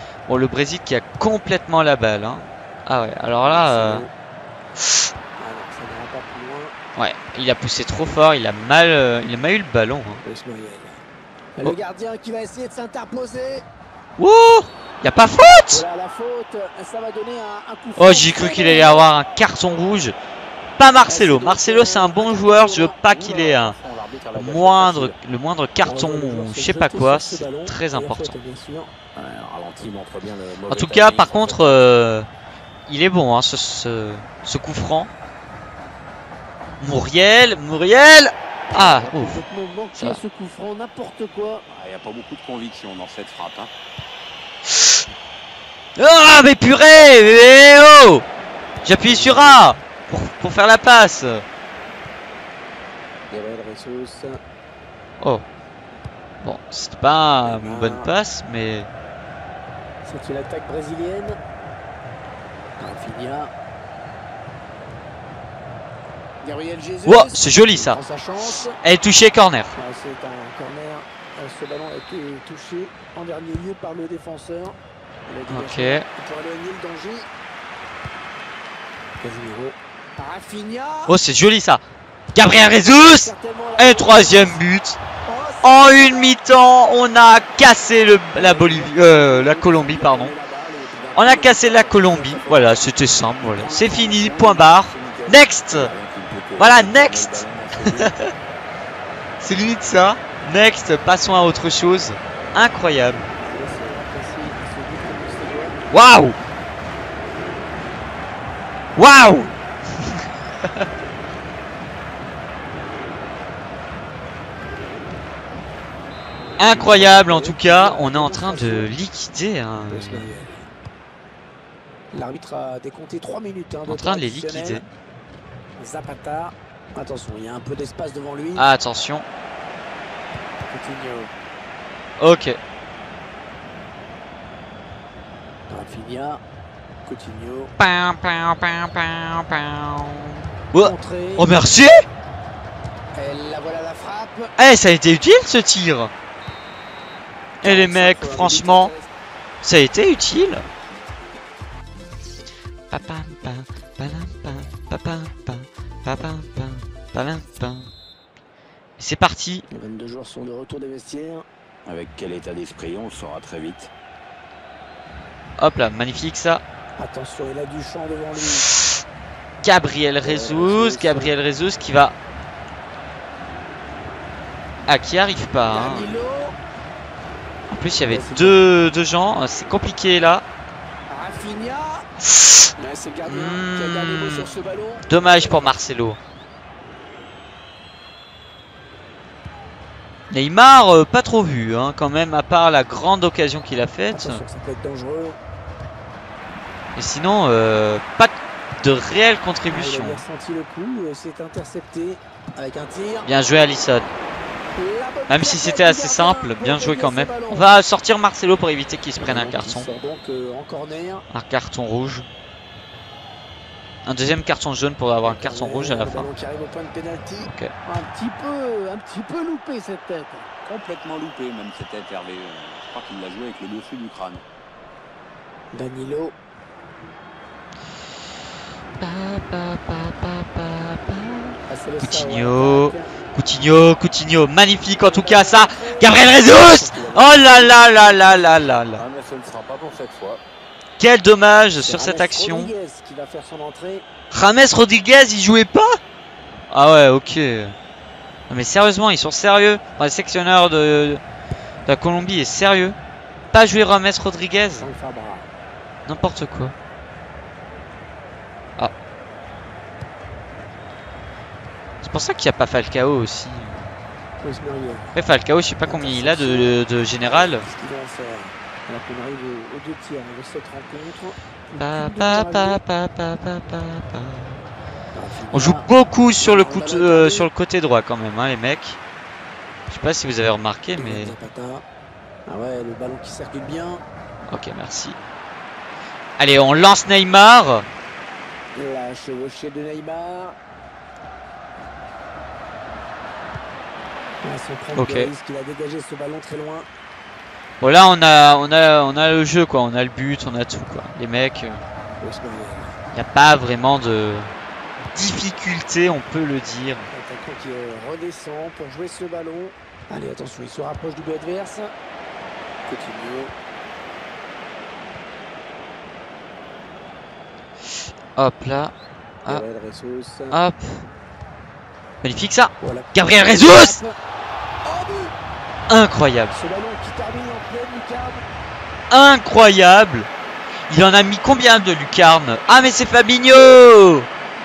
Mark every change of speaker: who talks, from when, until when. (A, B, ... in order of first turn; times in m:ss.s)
0:00.3-0:04.0 A
0:03.4-0:04.1 B
0:05.4-0:06.7 B
0:07.0-0:10.2 A
0:10.2-0:11.0 B
0:11.6-0:13.6 B
0:14.2-0:15.8 A
0:15.7-0:19.1 B
0:18.0-0:20.1 A
0:20.8-0:23.8 A
0:21.0-0:23.0 B
0:23.0-0:25.2 C
0:24.4-0:28.4 A
0:25.8-0:28.9 B
0:29.2-0:31.8 C
0:30.7-0:32.3 A
0:32.9-0:35.1 A
0:36.8-0:39.4 A
0:38.7-0:41.6 B
0:41.7-0:43.7 C
0:44.7-0:45.0 A
0:46.0-0:48.2 A
0:48.8-0:51.4 A
0:49.0-0:49.6 B
0:53.3-0:54.4 B
0:56.4-0:58.9 A
0:57.4-0:58.1 B
1:00.0-1:01.4 B
1:02.8-1:03.5 B
1:06.4-1:08.8 B
1:07.0-1:08.0 A
1:08.8-1:09.7 A
1:09.7-1:17.3 B
1:15.5-1:16.0 A
1:19.2-1:21.2 B
1:21.1-1:21.8 A
1:22.3-1:25.0 A
1:22.6-1:24.6 B
1:25.2-1:26.4 B
1:25.6-1:30.3 A
1:28.3-1:32.8 B
1:31.0-1:38.1 C
1:31.1-1:35.9 A
1:36.6-1:38.3 A
1:39.4-1:43.2 A
1:43.4-1:45.8 B
1:45.9-1:46.3 A
1:49.0-1:49.5 A
1:56.6-2:00.3 A
1:56.6-1:58.9 B
1:59.9-2:00.7 B
2:02.1-2:04.8 B
2:03.9-2:04.8 A
2:05.8-2:08.6 B
2:08.6-2:09.2 A
2:10.6-2:11.3 B
2:12.2-2:12.6 A
2:15.7-2:16.4 B
2:17.0-2:17.7 B
2:17.8-2:22.0 A
2:20.8-2:21.5 B
2:23.1-2:24.5 B
2:24.6-2:26.1 A
2:27.6-2:29.1 B
2:27.6-2:28.9 A
2:29.6-2:30.6 A
2:32.9-2:37.9 A
2:39.0-2:39.6 A
2:39.7-2:41.4 B
2:41.8-2:43.9 C
2:45.6-2:46.6 A
2:47.0-2:48.6 B
2:49.6-2:52.2 A
2:50.2-2:51.3 B
2:54.9-2:56.0 A
2:55.7-2:56.6 B
2:57.7-3:00.4 A
2:58.1-2:58.6 B
3:01.1-3:02.0 B
3:02.8-3:05.7 B
3:03.2-3:04.5 A
3:05.1-3:06.2 A
3:10.3-3:14.4 A
3:14.1-3:15.4 B
3:16.9-3:20.2 A
3:19.7-3:23.3 B
3:23.2-3:24.1 A
3:24.7-3:27.7 B
3:25.3-3:29.9 A
3:29.2-3:31.2 B
3:31.3-3:32.3 A
3:34.0-3:36.3 A
3:35.2-3:40.5 B
3:37.4-3:37.7 A
3:40.6-3:44.4 C
3:45.7-3:46.4 B
3:49.0-3:59.0 A
3:51.7-3:53.1 B
3:54.9-3:58.8 B
3:58.9-4:00.4 C
4:01.0-4:02.7 A
4:01.7-4:04.0 B
4:04.3-4:06.0 A
4:06.7-4:07.7 A
4:08.5-4:11.2 A
4:11.8-4:13.0 A
4:13.5-4:14.9 A
4:14.8-4:15.5 B
4:16.0-4:16.7 A
4:22.0-4:23.9 A
4:24.4-4:25.2 B
4:25.2-4:27.6 A
4:25.8-4:32.8 B
4:31.8-4:34.6 A
4:35.1-4:37.5 B
4:35.5-4:39.0 A
4:39.9-4:41.3 A
4:41.0-4:41.8 B
4:42.5-4:44.0 B
4:44.5-4:45.2 A
4:46.4-4:47.8 A
4:48.8-4:50.6 B
4:54.4-4:56.9 B
4:54.9-4:55.3 A
4:57.8-5:01.8 A
5:02.2-5:03.0 B
5:03.1-5:04.5 A
5:05.1-5:07.1 A
5:07.1-5:11.9 B
5:12.9-5:13.5 B
5:18.4-5:18.9 A
5:19.4-5:20.6 B
5:20.5-5:21.0 A
5:22.2-5:24.0 A
5:22.8-5:24.1 B
5:24.8-5:25.3 B
5:25.9-5:26.5 A
5:26.5-5:28.4 B
5:29.1-5:30.3 A
5:30.9-5:34.3 A